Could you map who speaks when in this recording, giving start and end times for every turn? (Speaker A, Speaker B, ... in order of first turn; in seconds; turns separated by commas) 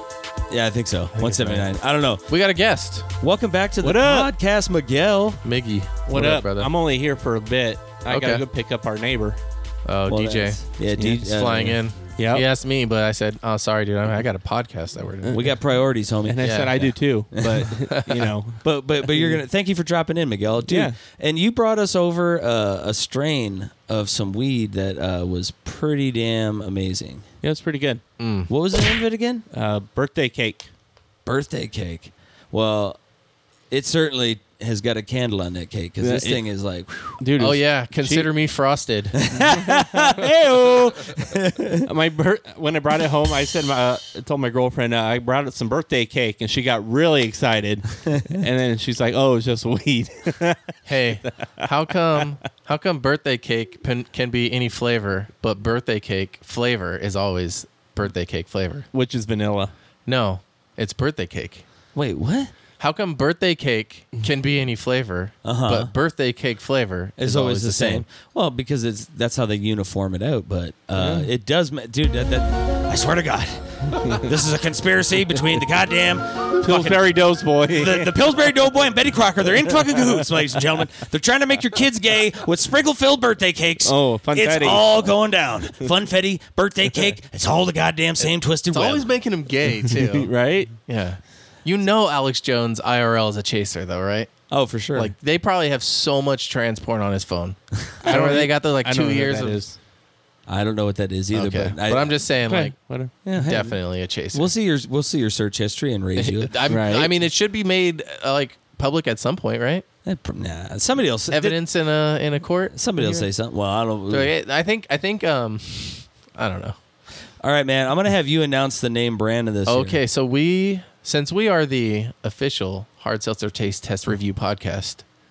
Speaker A: 0.5-2.2, Speaker B: 1.1-1.6, Speaker B: 2.3-3.1, Speaker A: 3.2-5.4, Speaker C: 3.8-4.3, Speaker B: 5.4-6.7, Speaker C: 6.1-9.4, Speaker B: 8.1-8.4, Speaker B: 9.8-15.5, Speaker A: 10.1-11.8, Speaker C: 10.9-11.2, Speaker C: 12.2-12.4, Speaker C: 15.2-15.5, Speaker A: 15.3-17.6, Speaker C: 16.3-19.4, Speaker B: 16.4-16.7, Speaker B: 17.9-18.3, Speaker A: 18.6-27.2, Speaker C: 20.6-21.0, Speaker C: 27.4-28.0, Speaker B: 28.2-28.5, Speaker A: 28.5-29.4, Speaker C: 29.5-30.7, Speaker A: 31.2-33.0, Speaker A: 33.7-37.2, Speaker C: 36.0-36.4, Speaker C: 37.2-38.3, Speaker B: 37.4-39.4, Speaker A: 39.2-41.9, Speaker C: 39.5-41.0, Speaker C: 41.8-50.7, Speaker B: 50.9-58.9, Speaker C: 58.9-59.7, Speaker B: 60.0-61.6, Speaker A: 61.9-62.5, Speaker B: 62.8-68.0, Speaker A: 65.4-65.9, Speaker A: 67.2-77.2, Speaker C: 71.0-71.3, Speaker C: 76.6-78.1, Speaker A: 77.7-89.0, Speaker C: 83.8-85.1, Speaker B: 88.2-90.3, Speaker C: 90.0-90.7, Speaker B: 90.8-94.3, Speaker A: 94.5-95.1, Speaker B: 94.9-99.6, Speaker C: 98.0-99.8, Speaker A: 100.5-102.1, Speaker B: 101.3-102.7, Speaker C: 102.5-103.1, Speaker A: 103.2-103.8, Speaker B: 103.4-104.5, Speaker A: 104.3-106.5, Speaker B: 106.2-109.8, Speaker C: 106.7-107.1, Speaker A: 110.0-111.6, Speaker B: 111.3-112.7, Speaker A: 112.7-114.3, Speaker C: 113.0-113.2, Speaker B: 114.1-116.8, Speaker A: 117.4-120.0, Speaker B: 119.7-125.0